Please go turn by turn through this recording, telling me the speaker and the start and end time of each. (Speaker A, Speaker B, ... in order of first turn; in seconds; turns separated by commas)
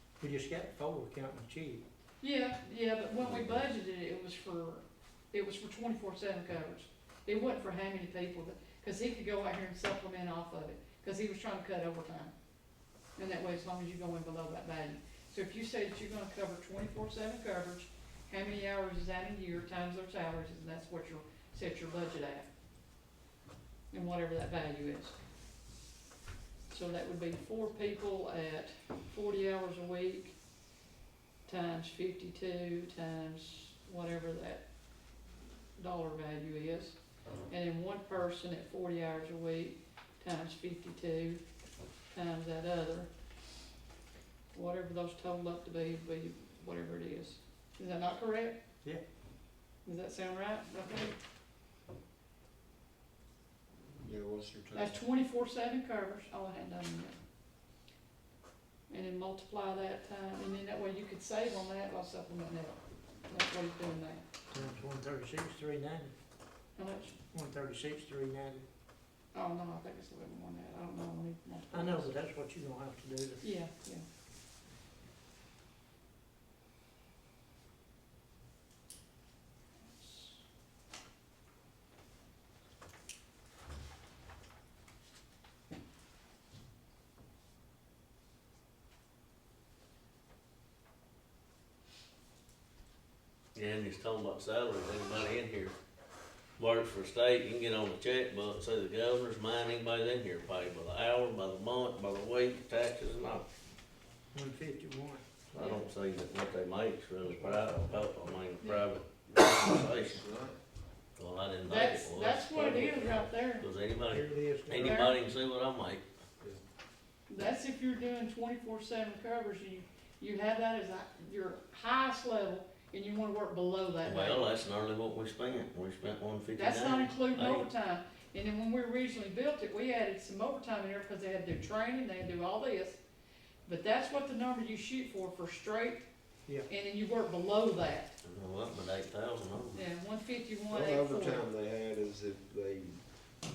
Speaker A: 0.2-1.8, Speaker B: 2.2-12.3, Speaker B: 13.2-22.4, Speaker B: 23.9-25.1, Speaker B: 26.7-30.3, Speaker B: 31.4-34.6, Speaker B: 35.8-41.4, Speaker B: 42.1-43.1, Speaker B: 44.5-48.6, Speaker B: 49.8-51.1, Speaker C: 54.0-55.0, Speaker B: 54.7-57.1, Speaker B: 58.9-62.7, Speaker B: 63.3-64.2, Speaker A: 64.5-66.1, Speaker B: 66.7-67.2, Speaker A: 67.3-68.6, Speaker B: 69.3-72.1, Speaker A: 71.7-73.5, Speaker B: 73.4-74.0, Speaker B: 79.8-80.4, Speaker D: 93.5-95.7, Speaker D: 96.6-103.5, Speaker A: 104.3-105.2, Speaker D: 105.5-110.2, Speaker B: 105.6-105.8, Speaker A: 107.2-108.1, Speaker C: 110.0-110.5, Speaker D: 111.2-116.0, Speaker B: 111.7-113.7, Speaker A: 114.1-115.0, Speaker B: 114.8-115.1, Speaker B: 117.3-124.5, Speaker D: 124.0-127.7, Speaker B: 126.5-133.0, Speaker B: 133.7-136.0, Speaker B: 136.7-138.1, Speaker D: 138.2-139.8, Speaker B: 139.7-141.4, Speaker C: 140.7-143.1